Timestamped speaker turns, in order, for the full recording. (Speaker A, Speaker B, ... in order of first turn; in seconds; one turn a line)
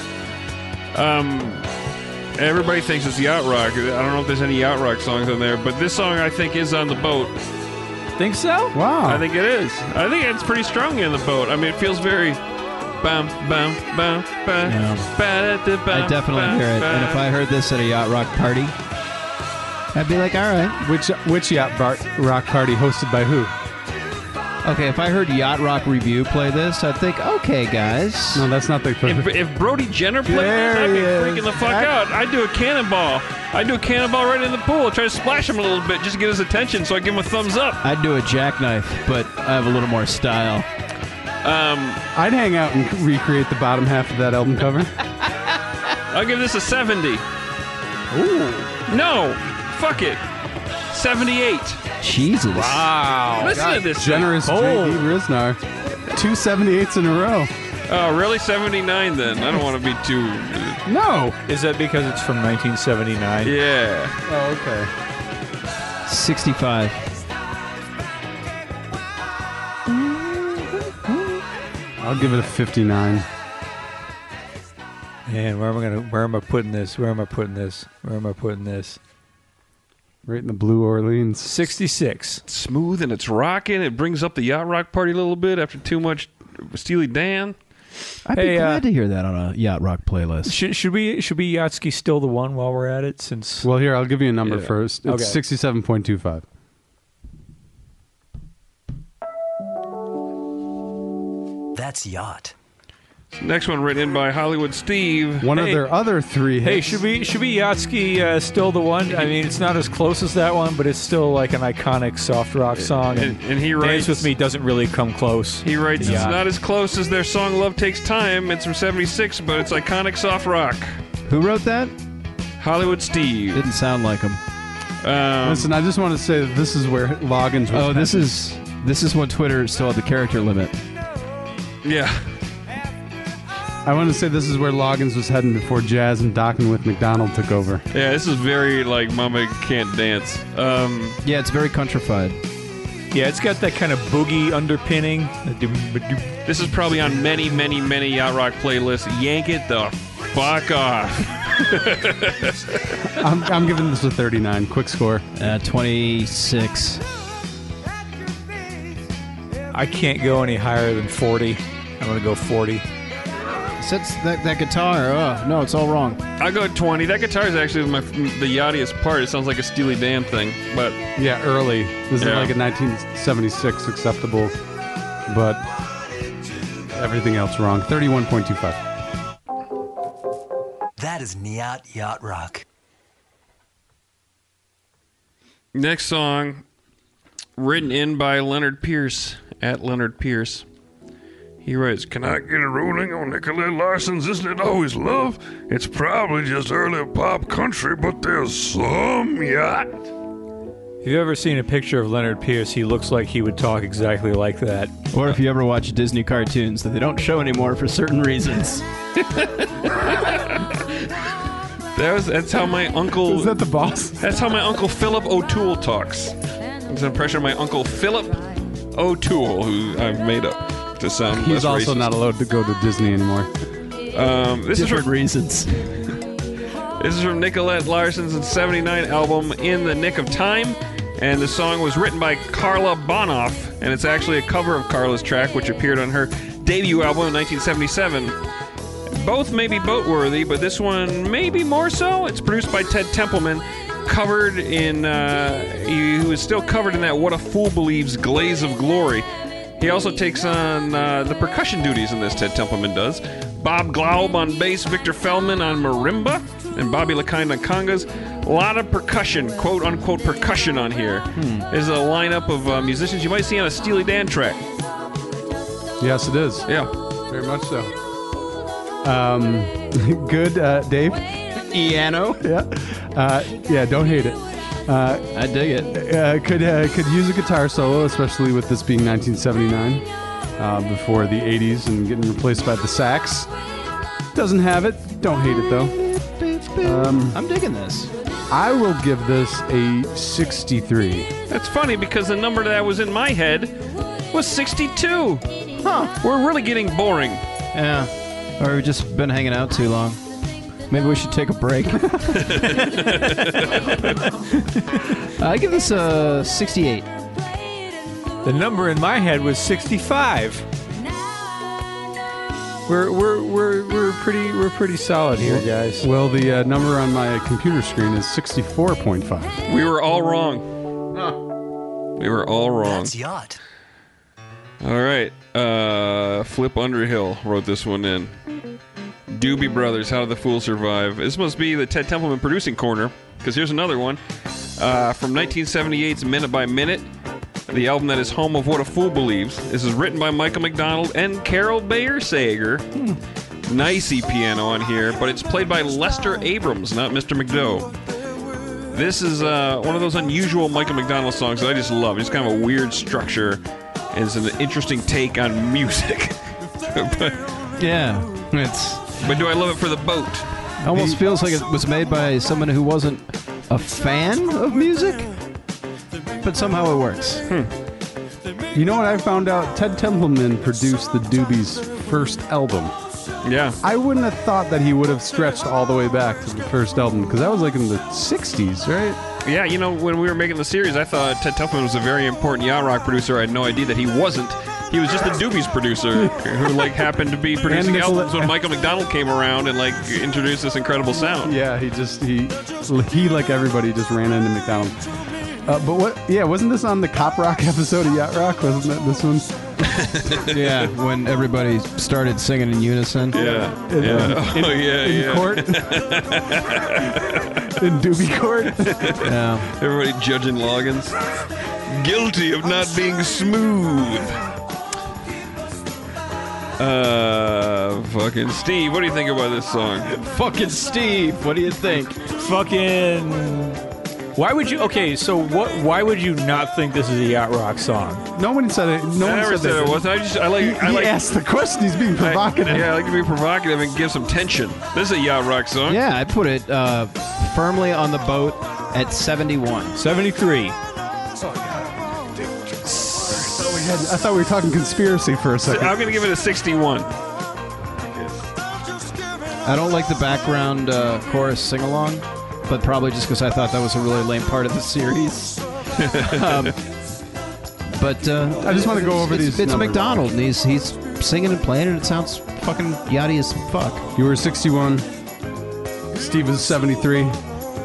Speaker A: 0.9-1.7
Speaker A: 2.4-7.4
Speaker B: 8.2-8.8
Speaker C: 8.7-9.2
Speaker A: 9.1-12.4
Speaker A: 13.0-17.2
Speaker D: 14.7-15.1
Speaker D: 15.9-18.8
Speaker D: 19.9-20.8
Speaker C: 20.8-23.5
Speaker D: 24.6-28.5
Speaker C: 28.4-29.3
Speaker A: 29.0-37.8
Speaker C: 30.3-31.9
Speaker D: 37.8-40.7
Speaker A: 41.4-42.0
Speaker C: 42.1-45.0
Speaker A: 46.1-47.2
Speaker B: 48.1-48.7
Speaker A: 48.9-50.2
Speaker A: 50.9-51.8
Speaker D: 52.0-52.9
Speaker B: 52.5-53.6
Speaker A: 53.4-54.4
Speaker C: 53.5-55.6
Speaker B: 54.4-55.1
Speaker C: 56.1-57.5
Speaker A: 57.9-60.8
Speaker C: 60.9-61.4
Speaker B: 61.5-63.5
Speaker A: 63.4-64.2
Speaker C: 64.3-64.9
Speaker D: 66.0-67.1
Speaker D: 70.2-71.2
Speaker C: 72.0-73.3
Speaker B: 75.3-79.0
Speaker C: 80.3-81.5
Speaker B: 81.4-82.4
Speaker A: 82.5-87.6
Speaker D: 88.2-90.6
Speaker B: 88.4-88.8
Speaker B: 90.5-93.7
Speaker C: 93.6-96.4
Speaker A: 94.4-94.7
Speaker B: 95.1-95.4
Speaker E: 101.8-102.5
Speaker A: 103.3-105.5
Speaker C: 105.4-107.0
Speaker B: 105.5-105.8
Speaker B: 106.6-116.4
Speaker A: 112.8-114.3
Speaker A: 115.6-120.9
Speaker D: 116.0-116.3
Speaker D: 121.3-121.9
Speaker A: 122.6-123.7
Speaker D: 123.5-124.4
Speaker A: 125.0-125.8
Speaker C: 125.4-128.3
Speaker D: 127.7-130.8
Speaker A: 131.8-132.2
Speaker C: 133.8-137.8
Speaker A: 137.9-141.2
Speaker D: 141.2-142.4
Speaker B: 143.1-146.4
Speaker A: 146.5-152.9
Speaker C: 153.1-155.2
Speaker D: 155.4-157.0
Speaker B: 159.7-162.8
Speaker D: 163.8-166.2
Speaker A: 166.4-171.0
Speaker C: 171.2-174.6
Speaker A: 172.2-172.5
Speaker C: 175.3-175.6
Speaker C: 176.9-178.8
Speaker E: 181.0-182.7
Speaker A: 185.7-186.6
Speaker A: 187.6-190.7
Speaker A: 191.6-200.0
Speaker B: 201.0-204.9
Speaker D: 205.1-208.8
Speaker A: 209.2-210.8
Speaker A: 211.9-213.6
Speaker C: 213.2-214.2
Speaker A: 214.2-216.3
Speaker A: 216.9-222.1
Speaker C: 221.3-223.5
Speaker A: 224.1-225.1
Speaker D: 224.7-226.2
Speaker A: 227.0-238.4
Speaker A: 239.1-249.3
Speaker A: 249.8-264.6
Speaker D: 261.4-261.7
Speaker C: 266.0-266.7
Speaker A: 266.7-266.9
Speaker C: 267.3-267.9
Speaker C: 269.0-271.3
Speaker D: 271.6-272.4
Speaker C: 272.4-275.3
Speaker D: 275.3-275.9
Speaker C: 275.9-280.1
Speaker C: 280.6-283.5
Speaker C: 284.3-286.0
Speaker D: 286.0-288.1
Speaker C: 286.8-287.4
Speaker C: 288.5-291.3
Speaker A: 291.5-293.7
Speaker A: 294.3-295.4
Speaker D: 295.8-296.1
Speaker A: 296.2-297.4
Speaker D: 297.7-300.2
Speaker D: 300.9-303.5
Speaker A: 302.4-304.1
Speaker D: 305.1-307.1
Speaker B: 308.4-310.6
Speaker B: 312.9-316.1
Speaker C: 315.4-319.6
Speaker A: 319.7-320.7
Speaker A: 322.2-323.1
Speaker E: 322.8-323.6
Speaker A: 324.8-328.3
Speaker A: 329.3-334.2
Speaker A: 334.8-337.1
Speaker A: 337.7-342.9
Speaker A: 343.7-347.9
Speaker A: 348.9-353.6
Speaker A: 354.1-357.5
Speaker D: 357.8-359.3
Speaker A: 359.2-360.5
Speaker D: 360.8-365.3
Speaker C: 360.9-361.2
Speaker D: 366.4-367.4
Speaker C: 368.7-372.9
Speaker A: 373.4-373.8
Speaker C: 373.8-379.2
Speaker A: 379.4-391.6
Speaker C: 386.2-386.8
Speaker C: 387.7-388.6
Speaker C: 391.4-395.0
Speaker C: 395.7-399.6
Speaker A: 399.9-400.6
Speaker D: 400.4-403.4
Speaker A: 403.3-407.6
Speaker C: 403.3-406.0
Speaker D: 404.0-404.4
Speaker C: 407.7-409.3
Speaker A: 408.9-411.2
Speaker D: 409.2-409.7
Speaker A: 411.9-414.4
Speaker A: 416.8-420.1
Speaker D: 420.1-422.2
Speaker B: 422.3-423.8
Speaker B: 424.4-428.2
Speaker C: 428.4-430.1
Speaker A: 429.2-431.2
Speaker C: 430.6-432.9
Speaker A: 432.2-436.0
Speaker D: 435.9-440.0
Speaker B: 440.0-440.8
Speaker A: 442.8-443.9
Speaker C: 443.3-446.0
Speaker A: 445.7-447.1
Speaker D: 449.6-456.8
Speaker A: 456.0-456.7
Speaker D: 457.9-464.1
Speaker C: 458.6-460.3
Speaker C: 464.2-465.1
Speaker C: 466.1-467.4